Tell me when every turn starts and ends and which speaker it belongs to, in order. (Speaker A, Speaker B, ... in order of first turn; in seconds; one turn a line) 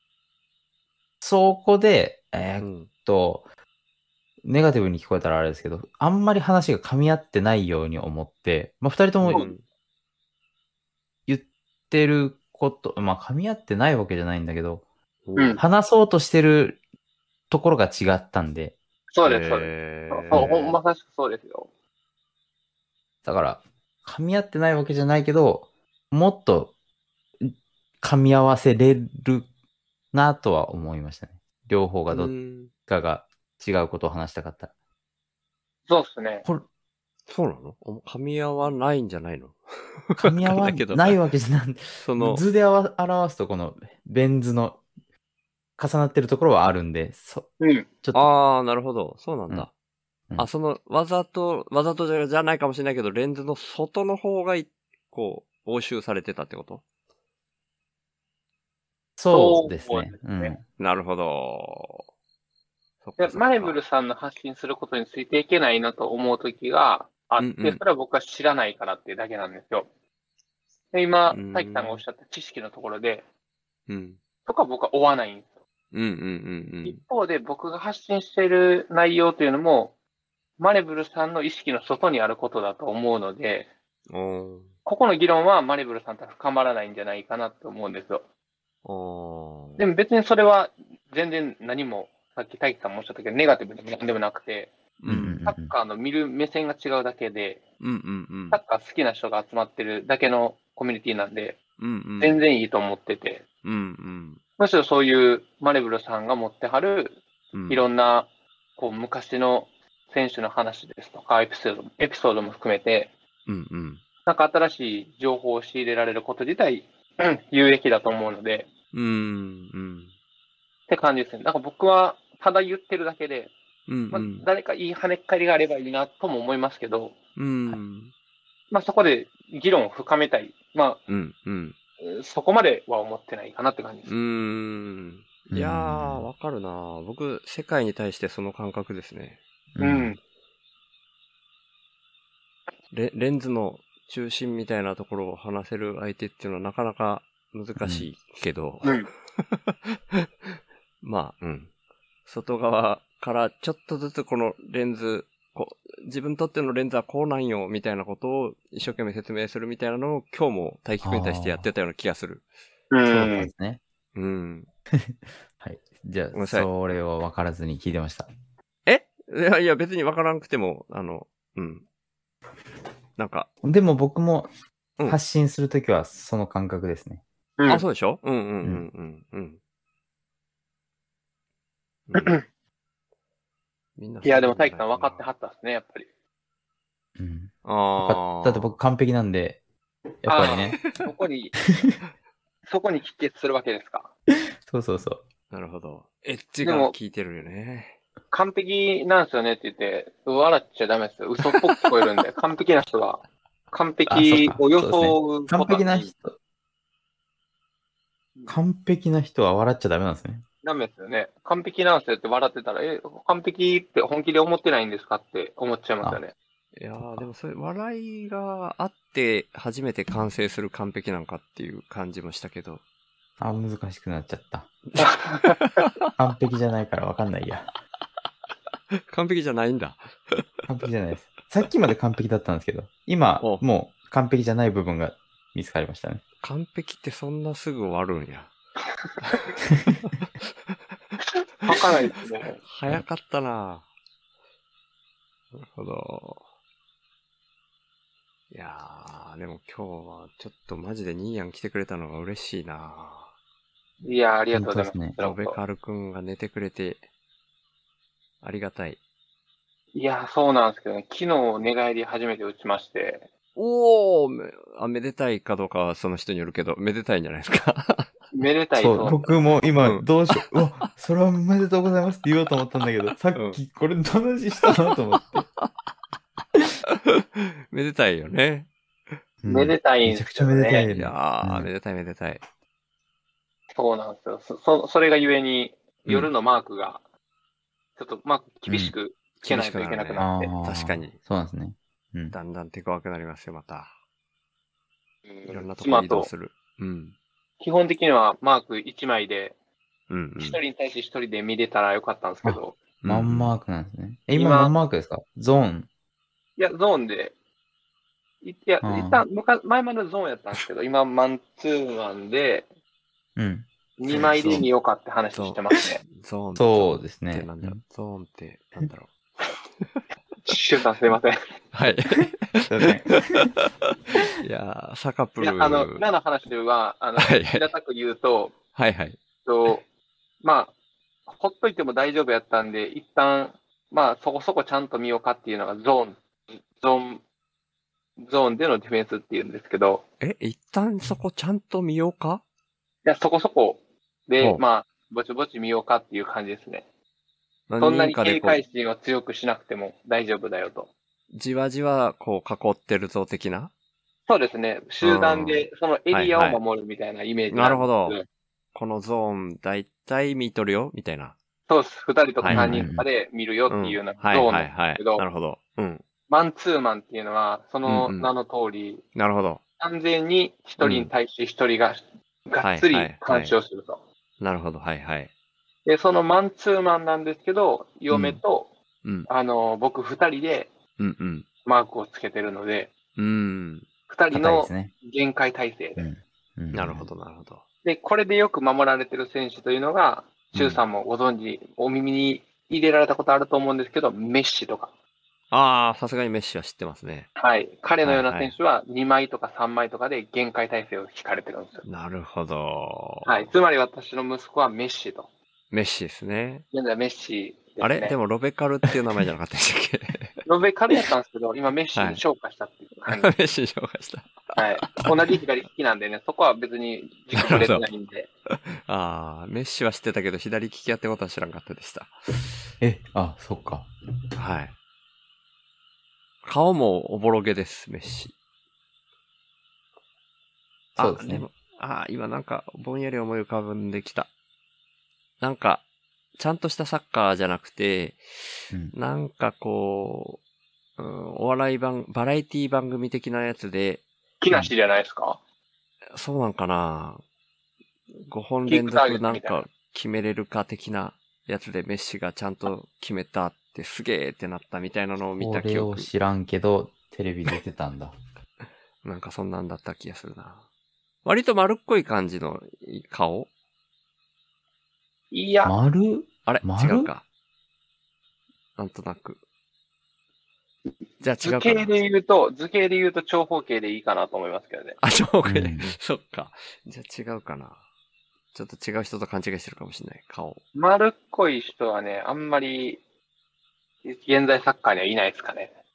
Speaker A: 1.2-3.4
Speaker B: 2.6-2.9
Speaker A: 4.4-9.4
Speaker B: 9.2-9.6
Speaker A: 11.3-14.8
Speaker B: 15.2-15.6
Speaker C: 15.3-15.6
Speaker A: 15.6-16.8
Speaker A: 17.5-18.8
Speaker C: 19.1-21.7
Speaker B: 19.2-20.7
Speaker A: 23.2-26.7
Speaker A: 27.4-29.4
Speaker A: 30.1-32.4
Speaker B: 32.1-32.7
Speaker A: 32.9-34.7
Speaker C: 35.9-36.5
Speaker B: 37.3-41.2
Speaker A: 40.2-44.8
Speaker B: 41.9-42.4
Speaker A: 45.8-47.5
Speaker C: 47.6-47.9
Speaker A: 48.0-48.3
Speaker B: 48.1-49.7
Speaker B: 50.4-56.8
Speaker A: 59.2-60.6
Speaker C: 59.3-60.5
Speaker B: 60.8-62.0
Speaker B: 63.0-63.8
Speaker C: 63.2-69.9
Speaker B: 67.4-67.8
Speaker C: 70.9-73.2
Speaker B: 71.3-72.0
Speaker B: 73.9-74.2
Speaker C: 74.4-75.5
Speaker B: 75.9-77.0
Speaker C: 76.8-79.9
Speaker C: 80.6-83.7
Speaker B: 84.1-84.7
Speaker C: 84.8-88.2
Speaker B: 88.8-89.8
Speaker C: 89.8-94.8
Speaker B: 95.0-95.4
Speaker A: 95.1-95.7
Speaker C: 95.5-97.6
Speaker B: 97.8-98.6
Speaker C: 98.5-101.6
Speaker B: 101.8-102.4
Speaker C: 102.2-103.4
Speaker B: 103.6-104.4
Speaker C: 104.6-113.1
Speaker B: 107.5-107.8
Speaker B: 113.5-114.0
Speaker C: 114.2-118.7
Speaker B: 118.9-120.1
Speaker C: 120.9-123.5
Speaker B: 123.9-124.5
Speaker C: 124.1-127.2
Speaker B: 127.3-128.1
Speaker C: 128.7-131.0
Speaker B: 131.1-131.8
Speaker C: 132.0-134.1
Speaker B: 134.1-139.4
Speaker A: 135.5-136.2
Speaker A: 139.7-140.1
Speaker C: 139.8-140.2
Speaker B: 142.9-151.7
Speaker A: 147.8-148.1
Speaker C: 148.8-149.1
Speaker B: 152.2-162.4
Speaker A: 161.0-161.7
Speaker C: 162.9-163.5
Speaker A: 163.1-163.8
Speaker B: 164.1-164.7
Speaker A: 165.0-168.3
Speaker B: 166.3-166.7
Speaker B: 168.8-171.8
Speaker B: 173.2-173.5
Speaker A: 173.6-174.5
Speaker A: 175.1-177.2
Speaker C: 177.6-177.8
Speaker B: 177.7-179.6
Speaker B: 182.1-182.4
Speaker C: 182.1-182.4
Speaker B: 184.0-185.2
Speaker C: 184.2-186.1
Speaker A: 187.2-189.6
Speaker B: 187.6-188.8
Speaker A: 190.2-190.8
Speaker C: 190.3-191.6
Speaker C: 192.7-194.1
Speaker A: 194.6-195.2
Speaker B: 195.5-198.0
Speaker C: 196.6-196.9
Speaker C: 198.3-206.1
Speaker A: 204.1-206.4
Speaker A: 208.5-210.4
Speaker C: 210.6-216.3
Speaker B: 216.8-222.8
Speaker A: 217.0-217.3
Speaker A: 223.4-224.7
Speaker B: 224.9-226.1
Speaker C: 225.0-225.6
Speaker A: 226.2-227.7
Speaker B: 229.1-230.4
Speaker A: 230.7-236.2
Speaker B: 236.4-238.5
Speaker B: 240.1-240.7
Speaker C: 241.6-242.6
Speaker B: 242.6-243.9
Speaker B: 245.5-246.4
Speaker B: 248.5-253.3
Speaker C: 254.0-255.6
Speaker A: 254.5-255.1
Speaker B: 255.2-257.0
Speaker B: 258.4-259.0
Speaker C: 259.9-263.3
Speaker B: 263.6-268.1
Speaker C: 268.3-269.3
Speaker A: 268.8-275.5
Speaker B: 269.8-270.1
Speaker B: 273.3-273.6
Speaker B: 275.4-275.6
Speaker B: 276.9-279.1
Speaker A: 279.4-281.7
Speaker C: 279.5-280.9
Speaker B: 280.9-282.4
Speaker C: 283.7-287.0
Speaker C: 288.0-290.5
Speaker A: 288.7-288.9
Speaker B: 289.4-291.2
Speaker A: 290.2-292.4
Speaker B: 292.3-293.9
Speaker C: 295.3-296.3
Speaker B: 295.5-297.1
Speaker C: 297.6-299.5
Speaker B: 300.1-300.6
Speaker C: 300.4-302.8
Speaker A: 302.4-305.9
Speaker B: 303.0-303.5
Speaker C: 304.3-304.7
Speaker C: 306.6-307.3
Speaker C: 308.4-312.7
Speaker A: 308.8-309.2
Speaker A: 313.4-313.7
Speaker C: 314.0-316.0
Speaker B: 314.1-314.7
Speaker B: 315.3-319.1
Speaker A: 316.6-317.8
Speaker C: 320.4-321.4
Speaker B: 321.7-326.0
Speaker A: 322.7-323.5
Speaker C: 325.4-328.6
Speaker B: 327.2-327.7
Speaker B: 328.7-329.2
Speaker C: 329.4-329.8
Speaker C: 330.4-330.7
Speaker C: 331.3-337.2
Speaker C: 338.2-340.0
Speaker B: 340.2-342.4
Speaker C: 343.0-346.9
Speaker B: 347.7-348.6
Speaker C: 347.8-350.9
Speaker B: 351.3-353.7
Speaker C: 354.3-358.2
Speaker B: 355.0-356.6
Speaker B: 357.5-358.2
Speaker B: 358.7-361.4
Speaker C: 361.7-365.2
Speaker B: 362.4-362.9
Speaker A: 362.5-363.1
Speaker B: 363.7-366.0
Speaker C: 366.3-369.0
Speaker B: 367.9-368.3
Speaker B: 369.1-369.6
Speaker C: 369.8-374.0
Speaker B: 370.8-371.1
Speaker B: 372.6-373.6
Speaker B: 374.4-375.3
Speaker C: 375.9-378.7
Speaker C: 379.3-380.7
Speaker B: 381.0-381.4
Speaker C: 381.6-382.9
Speaker B: 383.1-383.9
Speaker C: 384.1-386.1
Speaker A: 384.3-384.9
Speaker A: 386.0-387.1
Speaker B: 386.7-387.6
Speaker C: 387.8-394.9
Speaker B: 395.5-397.3
Speaker C: 397.4-401.8
Speaker B: 398.0-398.6
Speaker B: 401.8-403.5
Speaker C: 403.2-405.3
Speaker B: 405.7-406.6
Speaker C: 406.7-408.2
Speaker B: 407.8-410.4
Speaker C: 410.4-413.3
Speaker B: 411.9-412.2
Speaker B: 413.1-415.1
Speaker C: 414.5-418.3
Speaker B: 417.3-417.9
Speaker B: 418.5-422.5
Speaker A: 422.8-423.9
Speaker B: 424.4-424.8
Speaker B: 426.4-428.3
Speaker A: 431.0-431.5
Speaker B: 431.0-434.3
Speaker B: 435.4-435.8
Speaker B: 436.4-440.4
Speaker B: 441.0-444.0
Speaker C: 444.4-445.4
Speaker B: 446.1-447.2
Speaker B: 448.2-456.1
Speaker C: 448.7-449.6
Speaker A: 455.4-458.1
Speaker B: 459.0-460.6
Speaker B: 461.2-463.5
Speaker C: 465.3-465.7
Speaker A: 465.6-467.1
Speaker B: 466.4-467.2
Speaker B: 468.8-469.4
Speaker B: 471.2-471.9
Speaker C: 471.4-475.0
Speaker B: 475.0-477.8
Speaker A: 475.4-475.9
Speaker B: 478.5-480.6
Speaker C: 480.7-483.0
Speaker C: 484.0-485.7